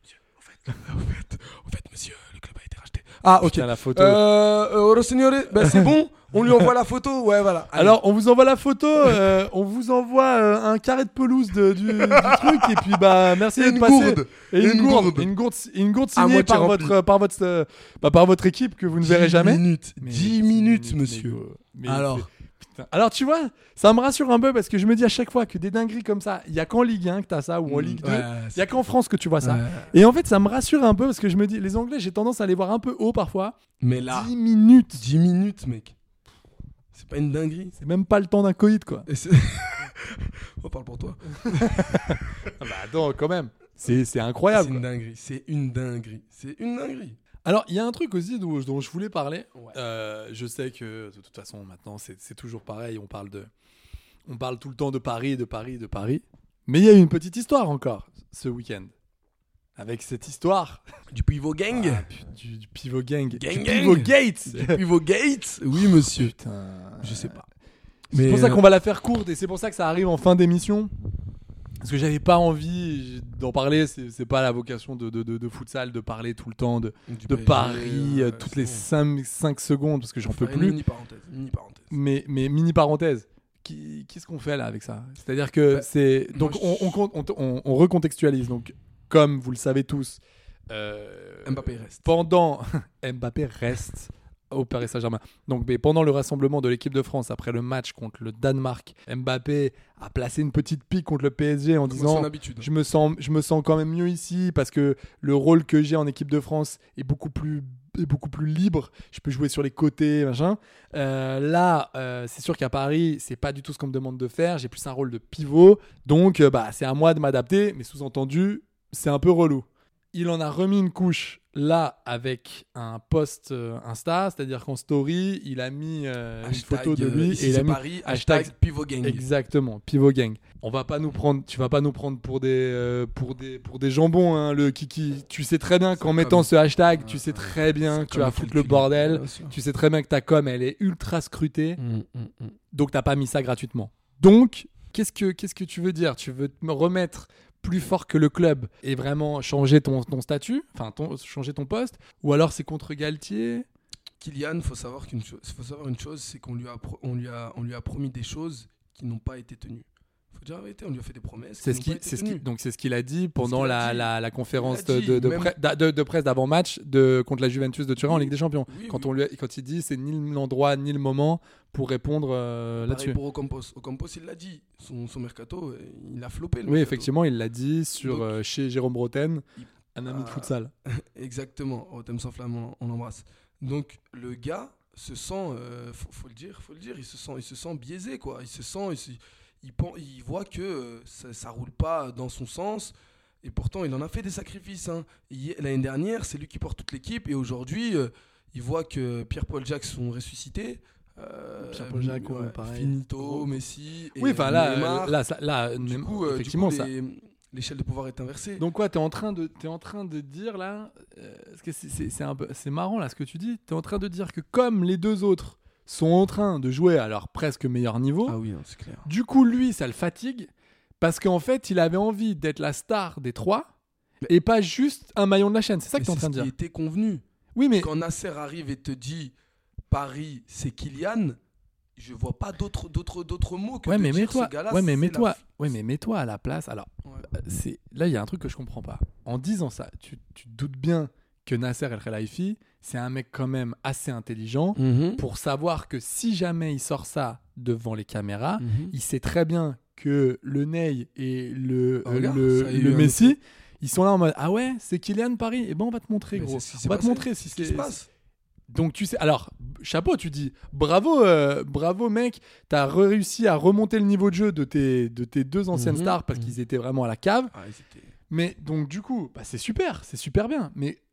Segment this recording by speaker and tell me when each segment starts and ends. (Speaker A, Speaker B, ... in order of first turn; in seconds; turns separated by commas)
Speaker A: 0.5-8.0, Speaker B: 3.4-4.2, Speaker B: 5.5-5.9, Speaker B: 7.7-33.6, Speaker A: 11.9-15.3, Speaker A: 16.1-16.9, Speaker A: 19.0-22.3, Speaker A: 27.7-28.8, Speaker A: 29.4-29.9, Speaker A: 33.8-34.3, Speaker B: 34.1-35.0, Speaker A: 34.9-36.0, Speaker A: 36.9-37.7, Speaker B: 37.8-39.1, Speaker A: 39.1-42.0, Speaker B: 41.4-44.8, Speaker A: 44.5-47.2, Speaker B: 47.4-53.5, Speaker B: 54.2-58.9, Speaker B: 59.8-60.8, Speaker A: 61.1-62.0, Speaker B: 61.7-64.8, Speaker A: 63.3-66.3, Speaker B: 65.7-67.4, Speaker A: 67.0-67.4, Speaker B: 68.1-70.9, Speaker A: 68.1-68.6, Speaker B: 71.8-80.8, Speaker A: 77.1-78.9, Speaker A: 80.3-81.9, Speaker B: 81.9-141.8, Speaker A: 85.7-87.0, Speaker A: 91.4-92.1, Speaker A: 101.9-102.7, Speaker A: 126.4-129.2, Speaker A: 136.0-139.5, Speaker A: 141.8-142.6, Speaker B: 142.7-153.7, Speaker A: 154.2-162.4, Speaker B: 161.6-173.2, Speaker A: 163.4-165.5, Speaker A: 168.0-169.1, Speaker A: 172.8-177.1, Speaker B: 176.7-180.7, Speaker A: 178.0-178.3, Speaker A: 180.1-205.2, Speaker B: 201.6-203.6, Speaker B: 204.2-206.9, Speaker A: 205.8-208.6, Speaker B: 208.6-218.4, Speaker A: 218.3-219.1, Speaker B: 219.0-223.7, Speaker B: 224.3-226.5, Speaker A: 225.9-227.2, Speaker B: 227.5-227.9, Speaker A: 227.8-229.3, Speaker A: 229.9-231.4, Speaker A: 232.0-235.4, Speaker B: 233.8-257.9, Speaker A: 244.8-245.2, Speaker A: 248.6-248.9, Speaker A: 252.0-253.4, Speaker A: 256.3-258.1, Speaker B: 258.7-267.5, Speaker A: 265.7-266.5, Speaker A: 267.5-268.1, Speaker B: 268.3-271.0